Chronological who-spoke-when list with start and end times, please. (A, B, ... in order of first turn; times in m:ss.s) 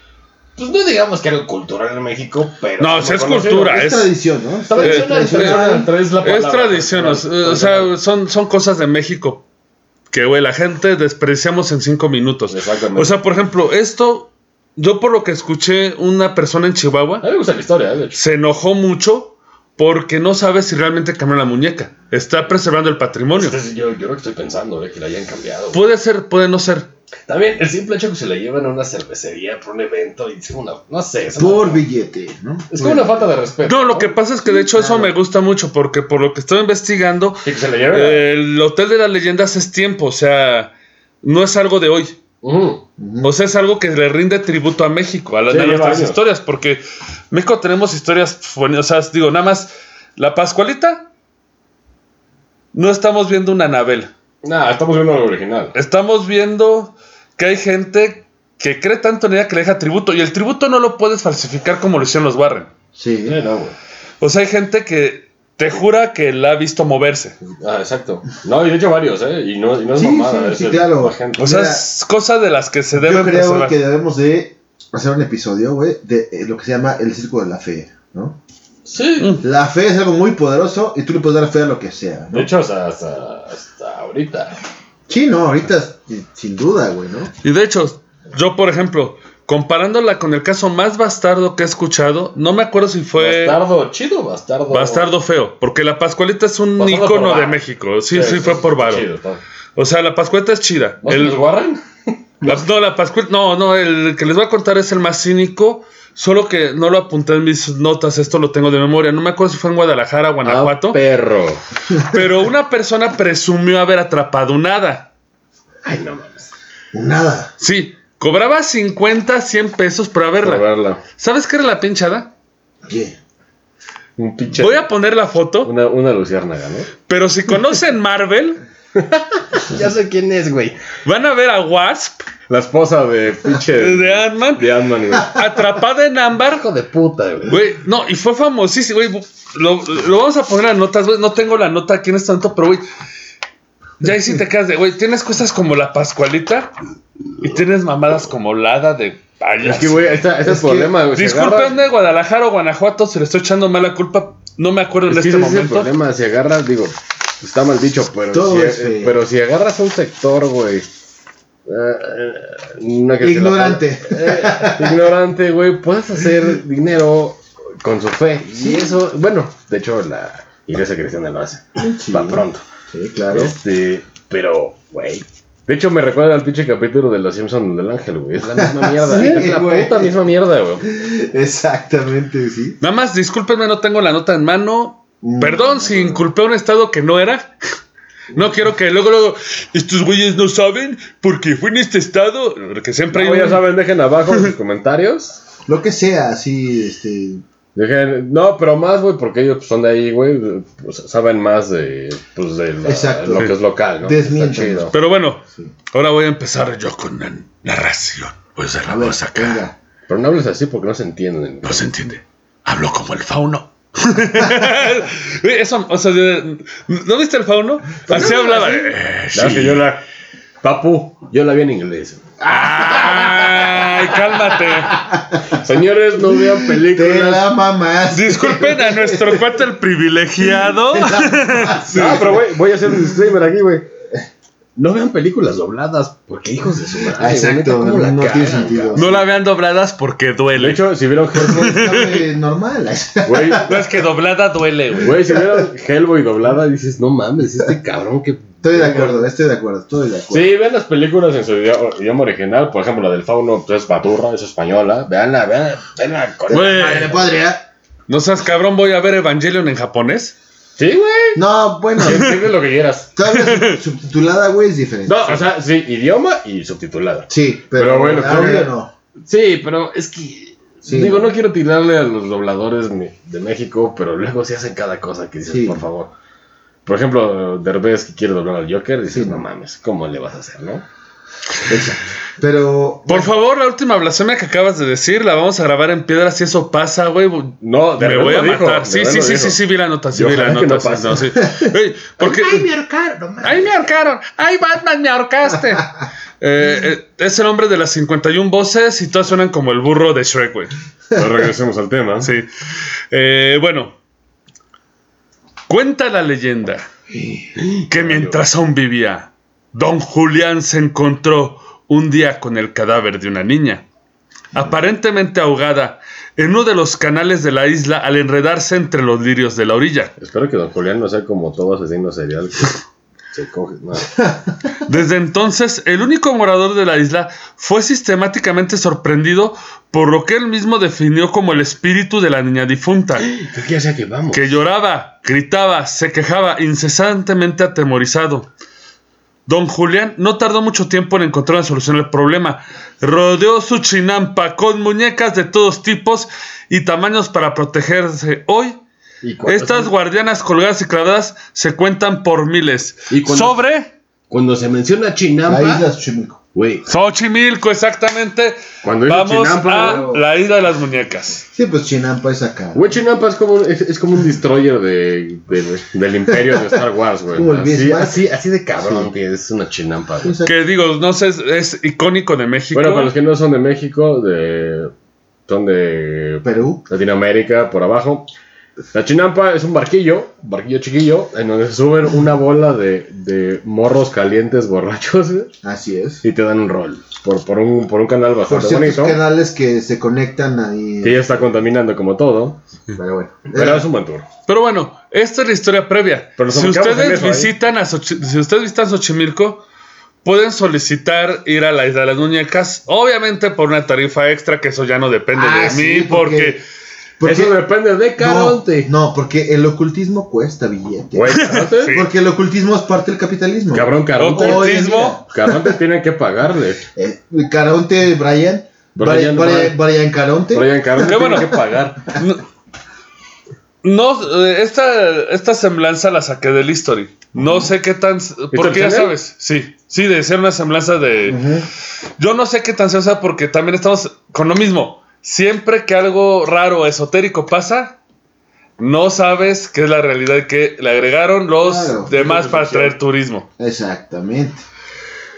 0:00.6-0:03.8 A
0:02.8-0:04.1 B
0:03.6-0:05.9 C
0:04.7-0:07.9 A
0:04.8-0:09.4 B
0:10.1-0:17.3 B
0:12.5-0:13.2 A
0:17.2-0:18.2 A
0:18.1-0:23.6 B
0:23.3-0:25.8 A
0:25.7-0:26.9 B
0:27.3-0:31.8 A
0:31.4-0:33.3 C
0:32.7-0:34.2 A
0:33.6-0:40.7 B
0:34.4-0:35.1 C
0:37.4-0:38.2 A
0:41.2-0:42.2 B
0:42.4-0:42.8 A
0:43.0-0:43.3 C
0:43.2-0:51.1 B
0:45.5-0:46.2 A
0:52.7-0:54.1 B
0:54.4-0:55.7 A
0:55.7-1:02.7 B
1:02.9-1:03.4 C
1:03.2-1:03.7 A
1:04.2-1:07.4 B
1:07.4-1:11.5 A
1:09.9-1:11.8 C
1:11.4-1:13.8 B
1:12.9-1:18.4 C
1:18.8-1:19.3 A
1:19.2-1:19.4 B
1:19.4-1:22.5 C
1:22.3-1:24.6 A
1:25.1-1:27.3 C
1:27.4-1:33.6 B
1:33.2-1:35.1 A
1:34.7-1:39.0 B
1:36.8-1:37.6 A
1:38.1-1:39.4 A
1:39.8-1:41.4 B
1:41.0-1:42.6 A
1:42.4-1:51.0 B
1:50.4-1:51.6 A
1:52.1-1:55.1 B
1:55.8-1:56.5 A
1:56.9-1:57.5 C
1:57.6-2:00.6 B
2:00.4-2:01.0 A
2:01.2-2:02.3 B
2:02.8-2:03.2 C
2:04.2-2:04.9 A
2:04.6-2:05.7 B
2:05.6-2:06.9 A
2:07.1-2:08.6 B
2:08.9-2:10.8 A
2:11.0-2:12.2 B
2:12.5-2:15.4 A
2:13.7-2:14.6 B
2:15.2-2:16.6 B
2:16.5-2:17.6 A
2:17.5-2:22.8 B
2:24.0-2:26.7 B
2:27.4-2:30.2 B
2:29.6-2:31.8 A
2:30.4-2:30.9 C
2:31.1-2:35.9 B
2:35.1-2:40.8 A
2:38.3-2:39.2 C
2:41.6-2:52.6 A
2:43.2-2:45.1 C
2:48.5-2:49.0 C
2:51.8-2:53.5 C
2:53.3-3:00.8 A
2:58.5-3:00.1 C
3:00.8-3:02.8 C
3:02.8-3:07.5 B
3:05.2-3:06.2 C
3:08.3-3:13.6 B
3:13.1-3:15.4 A
3:15.7-3:17.4 C
3:17.7-3:24.9 A
3:22.8-3:24.9 C
3:24.9-3:29.6 B
3:28.9-3:29.7 C
3:30.1-3:31.9 A
3:31.6-3:39.8 B
3:38.1-3:38.9 C
3:39.3-3:40.0 A
3:40.6-3:42.2 A
3:42.4-3:45.0 B
3:42.5-3:43.4 C
3:43.1-3:44.0 A
3:44.8-3:47.5 A
3:45.1-3:45.5 C
3:46.3-3:49.5 C
3:48.1-3:52.2 B
3:50.4-3:52.3 C
3:51.9-3:53.9 A
3:54.8-3:59.1 A
3:57.1-3:59.2 C
3:58.9-4:00.8 B
4:00.6-4:01.9 A
4:01.3-4:03.7 C
4:01.5-4:02.1 B
4:03.2-4:03.7 A
4:03.6-4:05.1 B
4:05.0-4:09.2 A
4:08.6-4:10.5 C
4:10.3-4:17.3 A
4:16.5-4:17.6 C
4:16.5-4:17.1 B
4:18.1-4:20.3 B
4:20.8-4:21.4 A
4:21.3-4:22.3 C
4:22.0-4:23.1 A
4:23.1-4:25.4 C
4:23.3-4:23.8 B
4:25.0-4:28.7 A
4:27.3-4:28.9 C
4:29.3-4:36.1 A
4:30.8-4:31.3 C
4:35.5-4:35.8 C
4:36.8-4:40.8 A
4:39.1-4:39.4 C
4:41.7-4:43.3 C
4:43.1-4:52.6 B
4:47.6-4:49.6 A
4:50.1-4:51.4 A
4:52.2-4:53.7 A
4:53.4-5:00.7 B
5:01.1-5:02.3 A
5:02.2-5:02.5 B
5:03.1-5:03.9 B
5:05.7-5:06.9 B
5:07.2-5:07.4 C
5:07.6-5:08.4 A
5:07.9-5:13.8 B
5:14.5-5:20.1 B
5:20.2-5:22.8 A
5:23.3-5:24.2 A
5:24.2-5:24.4 C
5:24.8-5:33.3 B
5:33.2-5:34.6 A
5:34.3-5:38.5 B
5:39.5-5:48.8 B
5:49.2-5:49.9 A
5:49.4-5:53.9 B
5:53.1-5:53.6 A
5:54.3-5:55.8 A
5:55.4-5:56.4 C
5:56.5-5:56.8 A
5:56.8-6:01.4 B
5:58.8-6:00.1 A
5:59.7-6:00.2 C
6:01.5-6:02.9 C
6:02.7-6:10.4 A
6:07.3-6:08.2 C
6:08.8-6:09.1 C
6:10.2-6:10.6 C
6:10.4-6:13.1 B
6:12.7-6:14.9 A
6:15.5-6:18.3 A
6:16.4-6:16.8 C
6:18.9-6:25.5 A
6:25.6-6:26.2 C
6:26.2-6:29.2 A
6:28.4-6:31.5 C
6:31.0-6:32.6 A
6:32.9-6:33.8 C
6:33.5-6:34.3 A
6:34.5-6:39.6 B
6:36.4-6:37.5 A
6:40.2-6:46.6 B
6:45.3-6:46.6 C
6:47.2-6:47.6 C
6:47.2-6:48.9 A
6:48.2-6:55.8 C
6:51.1-6:52.0 A
6:51.4-6:52.1 B
6:53.7-6:56.8 A
6:54.2-6:55.2 B
6:57.0-7:01.7 C
6:59.0-6:59.8 A
7:00.5-7:02.0 A
7:01.0-7:01.5 B
7:02.1-7:02.4 B
7:03.8-7:11.4 B
7:07.4-7:07.7 C
7:08.5-7:09.1 A
7:11.2-7:11.7 C
7:12.2-7:18.0 B
7:18.8-7:23.5 B
7:21.6-7:22.4 C
7:22.1-7:22.9 A
7:23.6-7:24.6 C